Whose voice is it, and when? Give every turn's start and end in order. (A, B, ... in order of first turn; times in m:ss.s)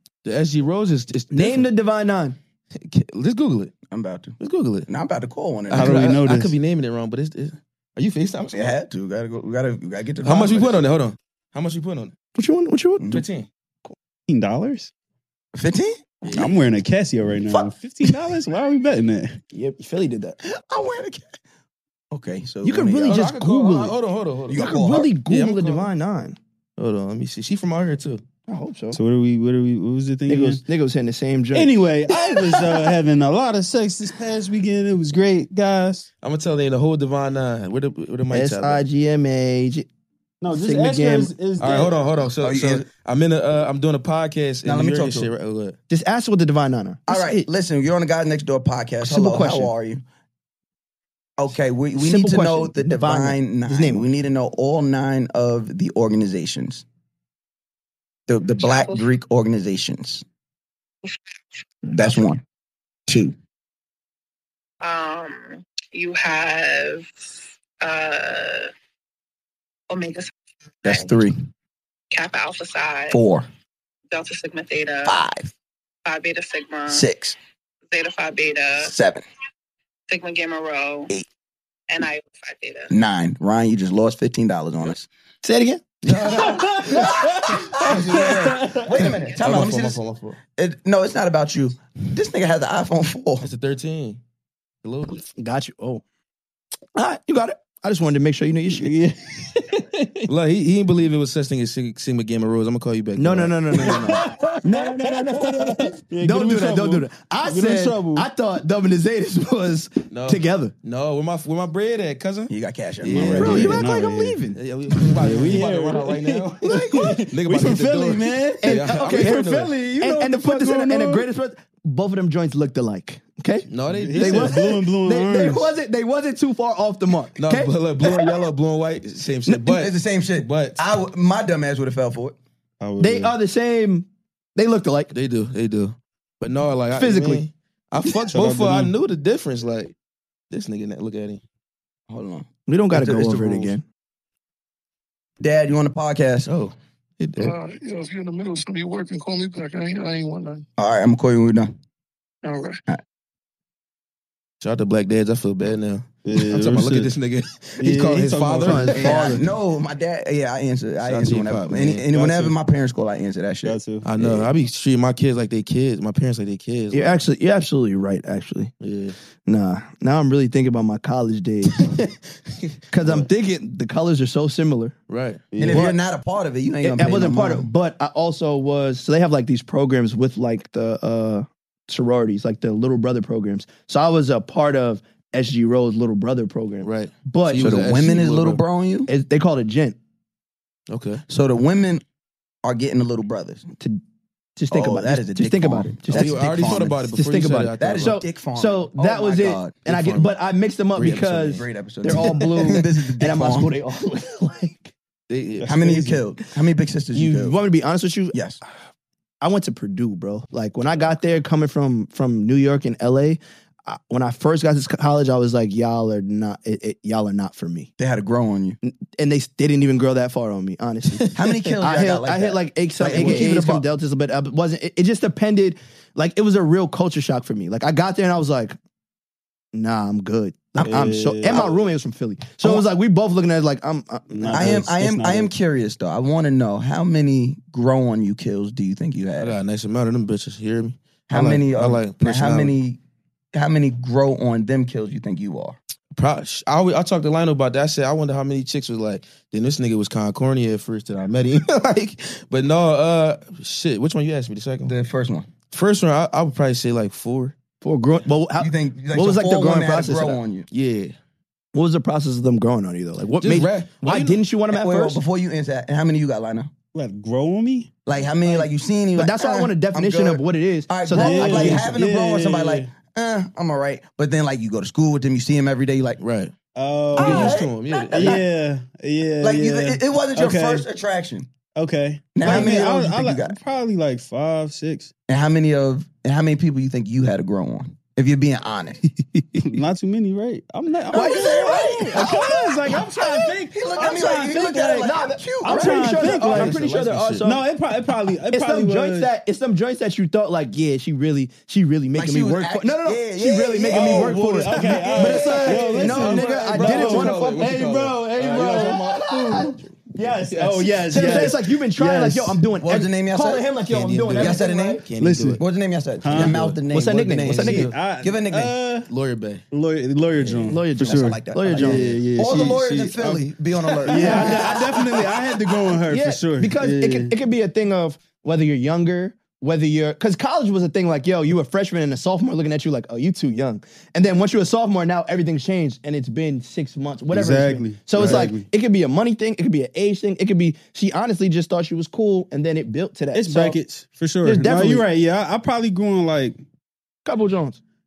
0:00.2-0:01.7 A
0:01.3-0:02.4 B
0:02.8-0:03.7 A
0:03.9-0:04.4 C
0:04.4-0:04.9 A
0:04.9-0:06.0 C
0:05.7-0:08.7 A
0:05.7-0:06.5 D
0:08.5-0:10.8 C
0:10.2-0:12.1 A
0:12.3-0:13.1 B
0:13.1-0:13.5 A
0:14.3-0:14.9 D
0:15.5-0:16.5 C
0:16.3-0:19.4 D
0:17.4-0:18.1 C
0:19.5-0:20.4 B
0:20.4-0:21.3 C
0:22.1-0:23.2 C
0:22.6-0:24.0 B
0:23.1-0:24.7 A
0:24.5-0:25.1 C
0:24.5-0:26.4 B
0:25.3-0:25.9 A
0:26.8-0:28.2 A
0:28.5-0:29.0 B
0:28.9-0:30.6 D
0:30.3-0:32.6 B
0:31.5-0:36.1 D
0:36.2-0:38.8 A
0:38.3-0:39.9 B
0:40.4-0:41.9 D
0:40.5-0:41.3 B
0:41.6-0:45.8 A
0:42.4-0:42.8 C
0:44.6-0:45.3 C
0:45.9-0:47.4 B
0:47.1-0:50.0 C
0:49.0-0:49.7 B
0:51.4-0:56.8 C
0:52.0-0:54.0 B
0:58.3-1:00.2 C
0:58.6-0:59.0 E
1:01.9-1:02.4 C
1:03.1-1:03.3 C
1:04.8-1:07.1 E
1:07.8-1:08.7 E
1:09.9-1:10.3 E
1:10.8-1:11.2 E
1:10.8-1:11.4 C
1:12.1-1:13.2 E
1:13.1-1:13.4 C
1:14.1-1:15.2 E
1:15.0-1:15.5 C
1:16.0-1:17.1 E
1:16.9-1:17.4 C
1:17.9-1:18.9 E
1:18.8-1:19.2 C
1:20.1-1:21.1 E
1:21.9-1:22.9 E
1:22.9-1:25.1 C
1:25.4-1:25.9 B
1:26.0-1:26.6 A
1:26.1-1:30.0 C
1:26.3-1:29.1 D
1:27.9-1:28.2 A
1:29.4-1:30.4 A
1:30.6-1:33.5 C
1:33.4-1:34.2 A
1:34.8-1:35.2 A
1:35.4-1:36.0 B
1:36.9-1:38.9 B
1:38.8-1:40.3 D
1:40.3-1:43.9 A
1:43.2-1:50.7 B
1:43.8-1:48.3 D
1:50.1-1:53.8 A
1:52.5-1:53.8 C
1:53.2-1:54.6 B
1:53.2-1:54.4 D
1:54.5-1:59.7 A
1:55.1-2:01.2 D
1:58.6-2:08.3 B
2:03.7-2:04.6 A
2:03.9-2:05.7 D
2:07.4-2:10.8 A
2:09.6-2:12.4 C
2:12.8-2:13.3 D
2:13.0-2:15.1 B
2:15.1-2:19.9 A
2:16.9-2:17.4 B
2:18.3-2:18.9 D
2:20.5-2:21.4 A
2:22.1-2:22.5 C
2:22.7-2:23.8 B
2:22.9-2:23.7 A
2:25.4-2:26.5 C
2:26.5-2:27.5 A
2:27.4-2:30.6 F
2:30.8-2:31.7 C
2:32.4-2:32.8 F
2:34.6-2:39.3 A
2:36.2-2:37.1 D
2:37.8-2:39.2 D
2:38.6-2:39.4 B
2:38.9-2:44.5 C
2:41.0-2:42.5 A
2:43.6-2:44.0 D
2:44.0-2:47.2 A
2:46.9-2:48.7 B
2:48.8-2:49.2 A
2:49.4-2:51.9 B
2:52.6-2:53.2 A
2:52.9-2:54.9 B
2:55.1-2:55.5 A
2:55.5-2:55.9 D
2:55.6-2:57.7 C
2:55.7-2:55.9 B
2:56.8-3:07.7 B
3:06.8-3:08.6 A
3:07.6-3:09.1 C
3:09.1-3:10.0 B
3:10.9-3:11.2 A
3:11.3-3:12.0 C
3:12.6-3:13.7 C
3:14.6-3:16.4 B
3:14.7-3:17.0 C
3:16.1-3:18.2 A
3:17.0-3:24.9 B
3:17.8-3:19.8 C
3:19.8-3:20.3 A
3:20.9-3:21.6 A
3:21.5-3:23.7 C
3:25.3-3:25.7 A
3:25.6-3:26.2 D
3:25.6-3:27.6 C
3:27.1-3:28.4 B
3:28.3-3:28.6 C
3:29.4-3:37.9 B
3:38.0-3:38.8 C
3:38.8-3:48.8 B
3:41.3-3:43.8 C
3:49.7-3:54.8 B
3:50.8-3:51.7 D
3:54.3-3:55.5 D
3:54.5-3:59.6 C
3:59.4-4:02.7 A
4:01.3-4:03.0 C
4:03.5-4:05.8 C
4:06.1-4:14.9 A
4:14.8-4:15.5 C
4:15.7-4:17.6 A
4:17.8-4:20.4 B
4:18.6-4:20.7 C
4:20.7-4:21.1 A
4:21.7-4:25.2 B
4:23.4-4:24.4 A
4:24.7-4:26.7 C
4:26.9-4:27.9 D
4:28.0-4:36.2 C
4:28.4-4:32.0 B
4:31.1-4:32.9 D
4:36.2-4:36.5 A
4:36.7-4:40.8 D
4:37.2-4:38.4 A
4:37.2-4:38.4 C
4:39.4-4:41.5 C
4:41.8-4:45.1 D
4:42.4-4:43.6 C
4:45.3-4:49.0 C
4:49.6-4:55.1 D
4:51.1-4:56.3 C
4:55.0-4:57.6 B
4:55.6-4:56.8 D
4:56.3-4:57.5 A
4:57.4-4:59.3 D
4:58.5-5:09.8 B
5:02.1-5:05.8 C
5:03.9-5:09.7 A
5:04.0-5:12.7 D
5:10.5-5:11.3 A
5:10.8-5:15.0 B
5:12.8-5:13.7 C
5:13.8-5:15.6 A
5:14.4-5:15.0 C
5:15.2-5:15.6 D
5:15.6-5:18.8 C
5:16.2-5:16.8 D
5:16.3-5:16.6 A
5:16.9-5:17.8 B
5:17.4-5:18.0 A
5:17.5-5:19.1 D
5:19.1-5:19.6 A
5:19.7-5:23.5 D
5:20.4-5:20.8 A
5:20.7-5:22.2 B
5:21.0-5:25.5 C
5:24.0-5:27.3 D
5:24.0-5:25.0 B
5:26.1-5:43.8 B
5:37.3-5:38.7 D
5:43.3-5:46.6 D
5:44.4-5:45.0 B
5:47.2-5:47.8 B